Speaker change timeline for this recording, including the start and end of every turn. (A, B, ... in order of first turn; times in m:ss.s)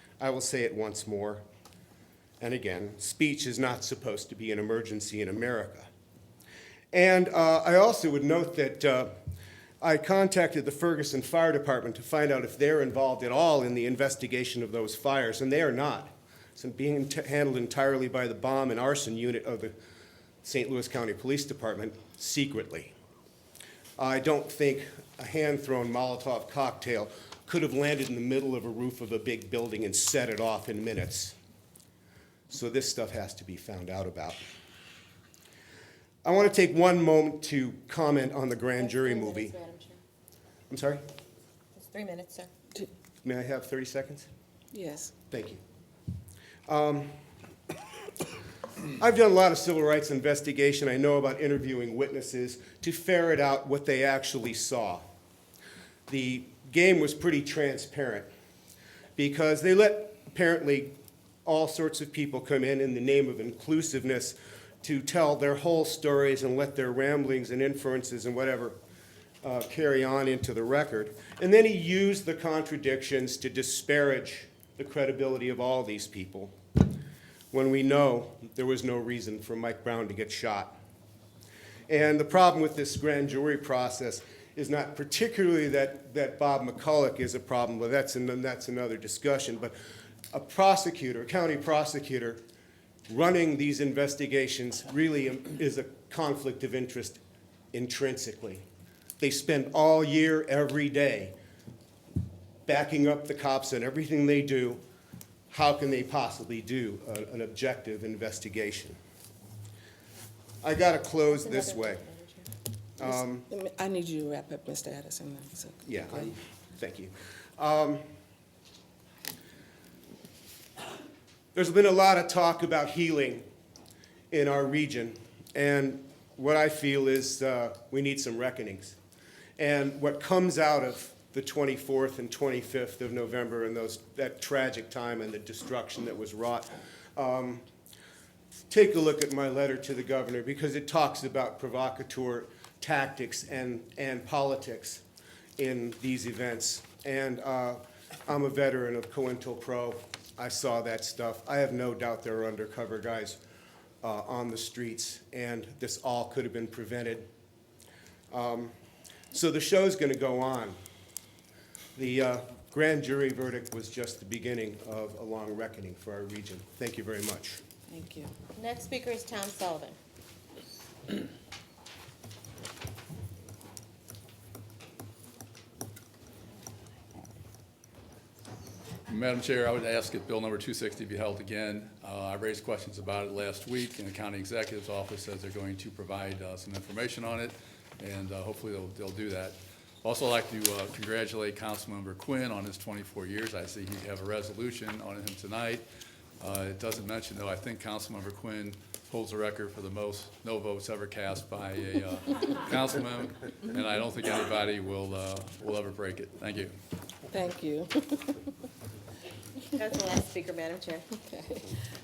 0:00.2-0:01.4 A
0:02.4-0:05.9 A
0:06.9-0:09.1 A
0:09.8-0:19.7 A
0:20.4-0:22.9 A
0:24.0-0:31.3 A
0:32.5-0:34.4 A
0:36.2-0:39.5 A
0:38.8-0:40.0 B
0:40.7-0:41.0 A
0:41.7-0:42.5 B
0:43.2-0:44.3 A
0:44.7-0:45.1 C
0:45.3-0:45.6 A
0:46.7-0:47.1 A
0:49.0-0:55.0 A
0:56.1-0:58.3 A
0:59.2-1:00.9 A
1:01.4-1:08.8 A
1:09.4-1:16.5 A
1:17.5-1:20.8 A
1:21.9-1:29.8 A
1:30.3-1:32.4 A
1:33.1-1:37.2 A
1:37.7-1:38.6 A
1:39.2-1:41.3 A
1:42.7-1:44.8 A
1:45.5-1:49.0 A
1:50.6-1:52.0 A
1:51.3-1:52.5 B
1:53.0-1:53.5 A
1:53.4-1:56.3 C
1:55.8-1:58.0 A
2:01.6-2:03.4 A
2:04.3-2:09.0 A
2:09.6-2:17.6 A
2:18.7-2:25.0 A
2:25.6-2:33.4 A
2:34.0-2:37.2 A
2:38.3-2:38.7 A
2:39.3-2:40.8 A
2:42.0-2:47.6 A
2:47.9-2:48.3 C
2:48.6-2:50.0 B
2:59.1-3:15.8 D
3:16.4-3:26.7 D
3:27.3-3:28.5 C
3:29.7-3:31.1 B
3:31.2-3:31.8 C